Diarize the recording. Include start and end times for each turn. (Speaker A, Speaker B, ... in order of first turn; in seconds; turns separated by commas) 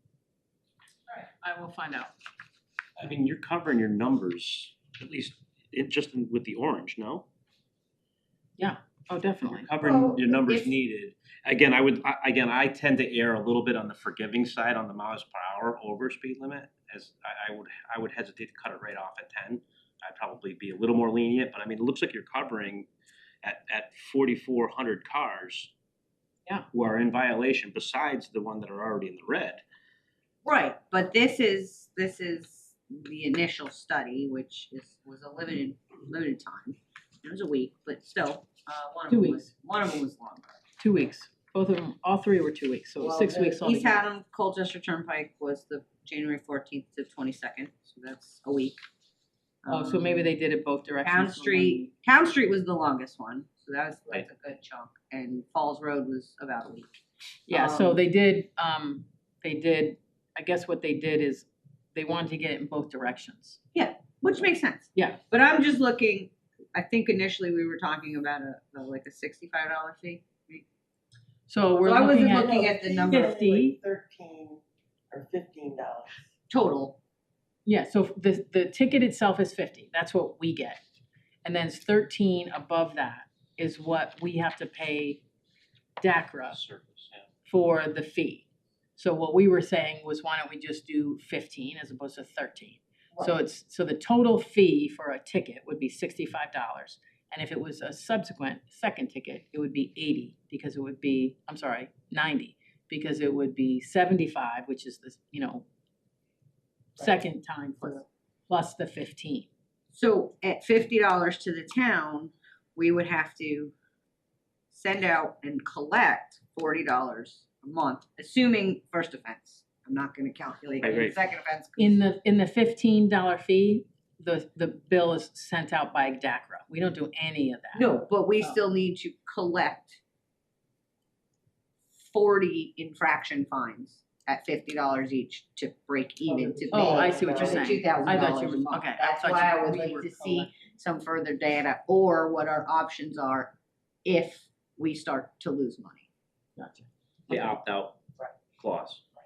Speaker A: 1.1-2.1, Speaker B: 3.0-7.2, Speaker A: 8.6-9.7, Speaker B: 9.4-22.9, Speaker C: 9.8-10.7, Speaker B: 23.4-25.7, Speaker B: 26.7-29.6, Speaker C: 30.4-40.5, Speaker A: 39.1-39.5, Speaker A: 40.8-44.0, Speaker C: 43.0-48.8, Speaker C: 49.6-50.3, Speaker A: 49.7-51.9, Speaker C: 51.0-56.9, Speaker A: 57.5-63.6, Speaker C: 57.5-58.0, Speaker C: 63.7-70.6, Speaker A: 64.9-65.2, Speaker A: 71.5-73.8, Speaker C: 71.8-73.3, Speaker D: 72.4-76.3, Speaker C: 76.5-77.0, Speaker A: 77.6-80.8, Speaker A: 81.4-85.2, Speaker A: 86.0-86.6, Speaker B: 86.5-87.3, Speaker A: 87.4-105.6, Speaker A: 107.0-109.5, Speaker C: 109.9-113.7, Speaker C: 114.7-122.0, Speaker B: 120.8-121.1, Speaker A: 121.8-128.6, Speaker C: 127.7-130.0, Speaker C: 132.0-143.5, Speaker D: 136.2-138.0, Speaker A: 136.7-140.6, Speaker C: 144.0-146.1, Speaker A: 146.6-147.6, Speaker B: 147.3-147.9, Speaker B: 148.6-149.0